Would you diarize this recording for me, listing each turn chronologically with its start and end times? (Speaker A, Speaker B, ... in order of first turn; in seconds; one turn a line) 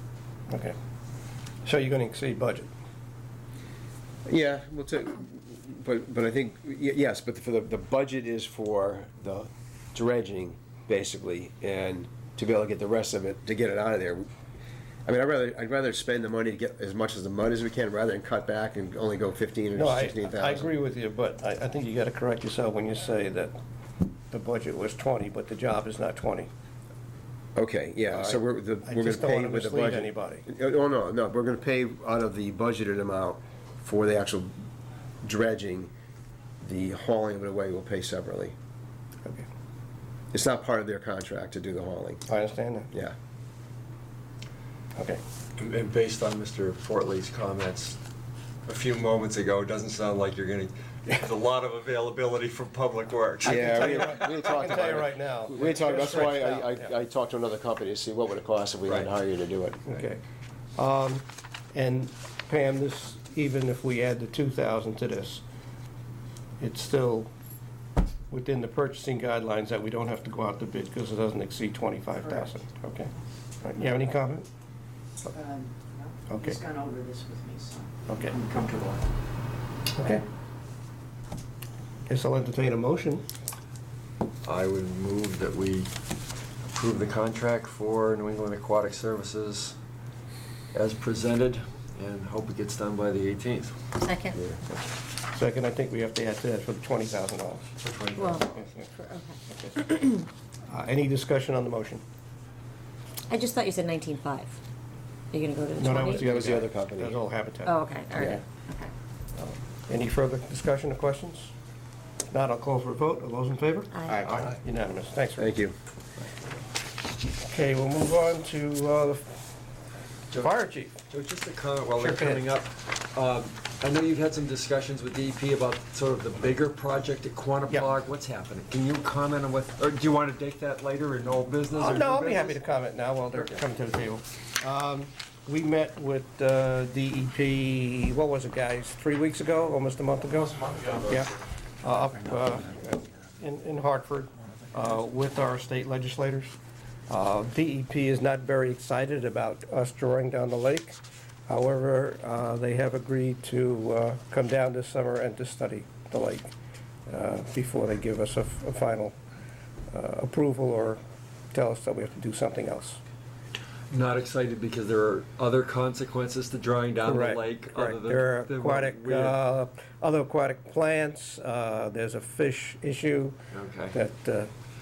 Speaker A: 0.5-0.7
Speaker A: 1.6-2.7
Speaker B: 4.3-14.3
Speaker B: 15.1-20.7
Speaker A: 19.8-23.5
Speaker A: 24.3-26.5
Speaker B: 27.6-34.5
Speaker A: 28.1-30.4
Speaker B: 35.2-35.9
Speaker B: 36.6-38.5
Speaker B: 40.3-42.2
Speaker A: 42.3-42.9
Speaker A: 45.0-45.2
Speaker C: 45.6-48.0
Speaker C: 48.6-54.4
Speaker B: 53.4-59.8
Speaker A: 53.4-56.9
Speaker C: 58.8-59.1
Speaker A: 59.9-60.2
Speaker A: 60.8-65.4
Speaker A: 66.6-67.3
Speaker A: 68.3-74.5
Speaker D: 72.2-72.5
Speaker D: 75.2-79.0
Speaker A: 76.3-76.6
Speaker A: 78.1-78.3
Speaker A: 79.9-80.2
Speaker A: 82.1-83.2
Speaker C: 84.4-85.9
Speaker C: 86.7-89.8
Speaker C: 90.7-93.9
Speaker E: 94.0-94.4
Speaker A: 94.7-97.7
Speaker C: 97.8-98.6
Speaker E: 98.2-99.3
Speaker A: 98.4-100.1
Speaker A: 100.7-102.0
Speaker E: 103.3-104.6
Speaker E: 105.3-106.3
Speaker A: 105.8-107.7
Speaker B: 106.2-107.1
Speaker E: 107.7-108.9
Speaker B: 108.2-108.4
Speaker A: 109.4-111.5
Speaker A: 112.3-115.5
Speaker B: 115.4-115.7
Speaker A: 117.4-119.4
Speaker A: 120.4-120.9
Speaker C: 121.1-132.6
Speaker A: 122.0-122.4
Speaker A: 131.7-146.5
Speaker A: 147.1-156.5
Speaker A: 157.1-159.2
Speaker A: 159.9-161.0
Speaker A: 161.5-163.0
Speaker C: 163.9-169.4
Speaker A: 167.1-173.4
Speaker C: 173.5-174.0
Speaker A: 173.9-174.5